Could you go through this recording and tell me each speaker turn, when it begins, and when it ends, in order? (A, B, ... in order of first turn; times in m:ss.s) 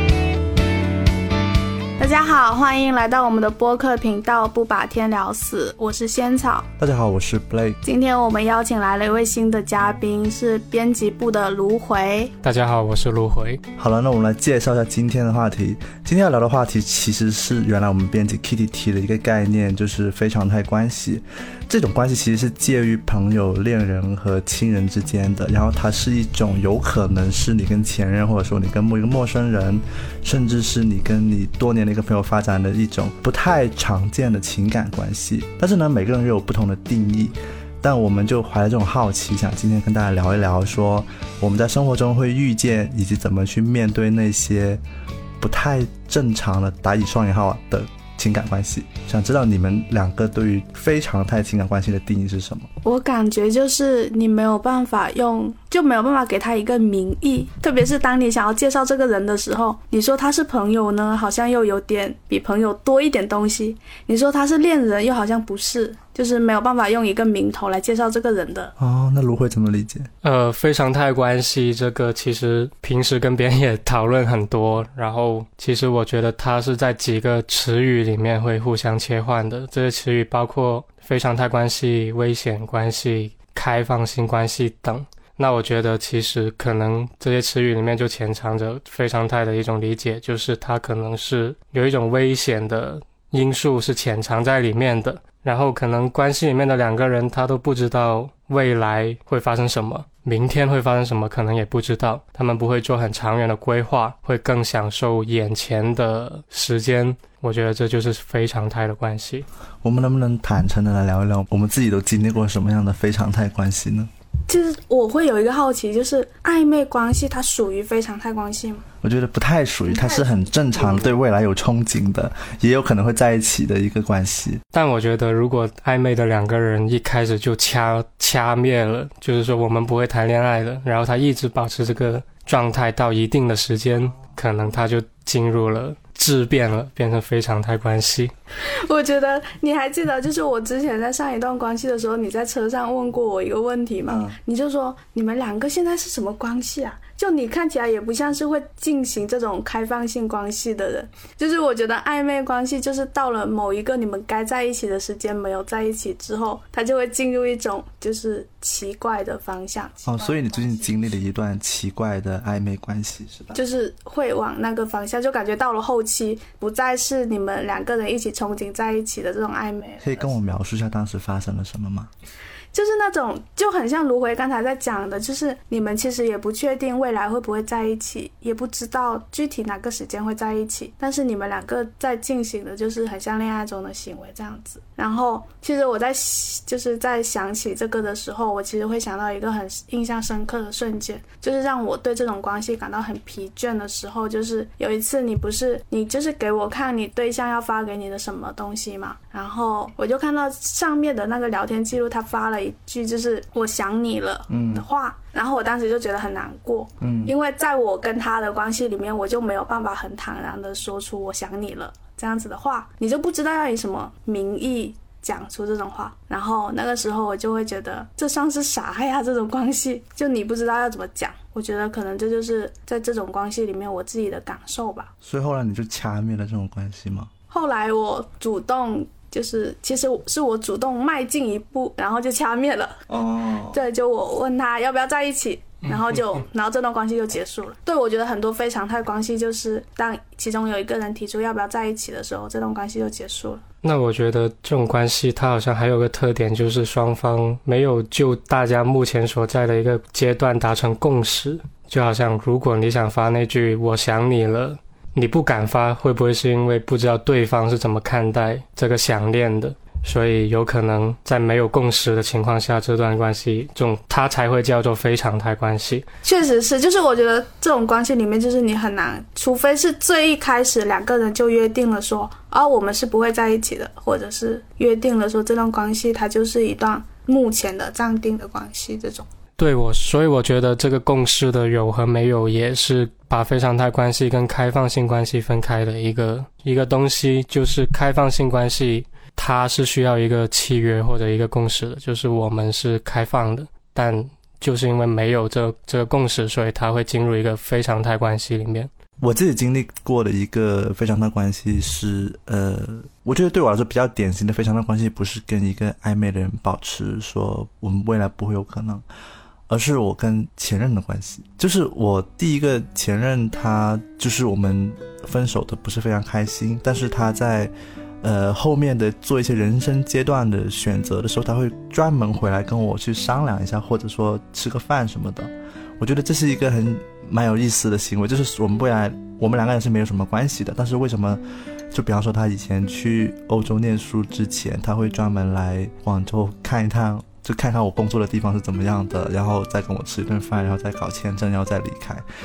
0:02.0-0:06.7 A
0:06.8-0:07.8 B
0:07.8-0:12.3 A
0:12.4-0:13.6 C
0:13.8-0:44.8 B
0:45.4-0:52.7 B
0:52.8-1:08.7 A
1:08.8-1:10.1 B
1:10.2-1:49.5 C
1:49.8-1:54.1 B
1:54.5-1:58.8 A
1:59.0-2:04.6 B
1:59.8-2:01.2 A
2:04.7-2:18.3 C
2:18.6-2:41.2 A
2:24.1-2:24.4 B
2:40.1-2:43.6 B
2:43.5-2:50.4 A
2:50.0-2:52.1 B
2:52.7-3:45.1 A
3:24.5-3:24.8 B
3:27.0-3:27.3 B
3:45.2-3:47.3 B
3:47.5-3:53.0 A
3:53.1-3:53.8 B
3:53.7-4:03.6 A
4:03.8-4:26.1 C
4:26.2-4:39.3 A
4:39.6-4:58.9 C
4:59.2-5:09.0 B
5:09.7-5:31.4 B
5:31.9-5:42.2 B